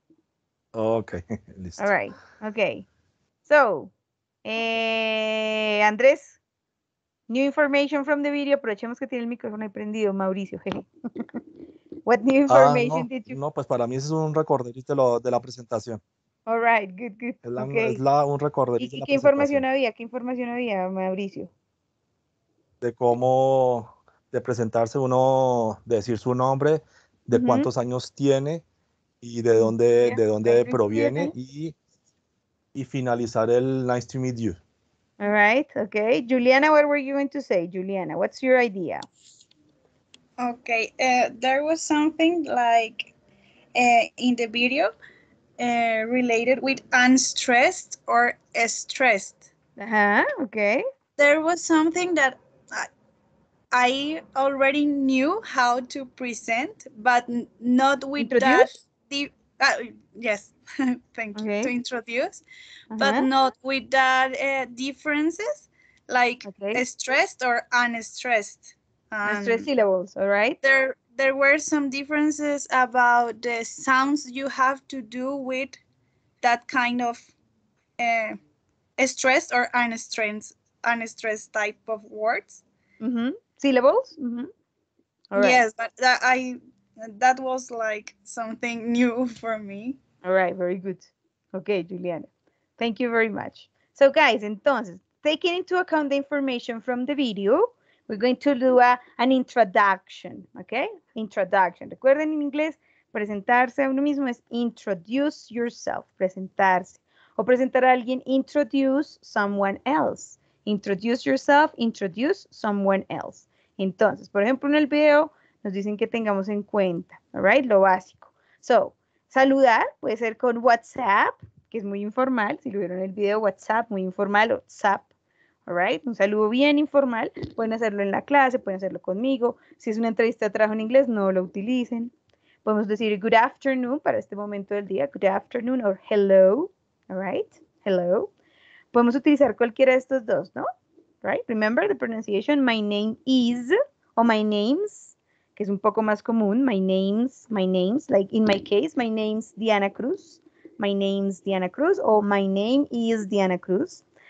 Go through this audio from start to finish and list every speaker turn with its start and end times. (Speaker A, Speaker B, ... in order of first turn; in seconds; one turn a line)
Speaker A: 0.7-1.9
Speaker B: 1.8-2.9
Speaker B: 3.5-3.9
Speaker B: 4.5-6.4
Speaker B: 7.3-10.9
Speaker B: 12.1-13.4
Speaker A: 12.5-16.0
Speaker B: 16.5-18.0
Speaker A: 17.4-19.6
Speaker B: 18.8-21.5
Speaker A: 22.8-28.6
Speaker B: 27.3-27.7
Speaker A: 29.2-31.8
Speaker B: 29.6-31.3
Speaker A: 32.8-34.6
Speaker B: 35.2-39.0
Speaker C: 40.4-43.1
Speaker C: 43.8-44.9
Speaker C: 45.6-49.5
Speaker B: 49.8-50.9
Speaker C: 51.2-52.9
Speaker C: 53.7-62.4
Speaker B: 58.2-58.7
Speaker B: 61.4-61.7
Speaker B: 62.9-63.3
Speaker C: 63.0-69.7
Speaker B: 66.4-66.8
Speaker B: 69.2-70.6
Speaker C: 70.6-75.8
Speaker C: 76.4-77.3
Speaker C: 78.0-78.4
Speaker C: 79.0-82.6
Speaker B: 83.0-84.5
Speaker B: 85.3-85.6
Speaker C: 85.3-90.0
Speaker B: 90.2-125.1
Speaker B: 125.7-132.1
Speaker B: 132.7-138.3
Speaker B: 138.9-140.7
Speaker B: 141.2-154.0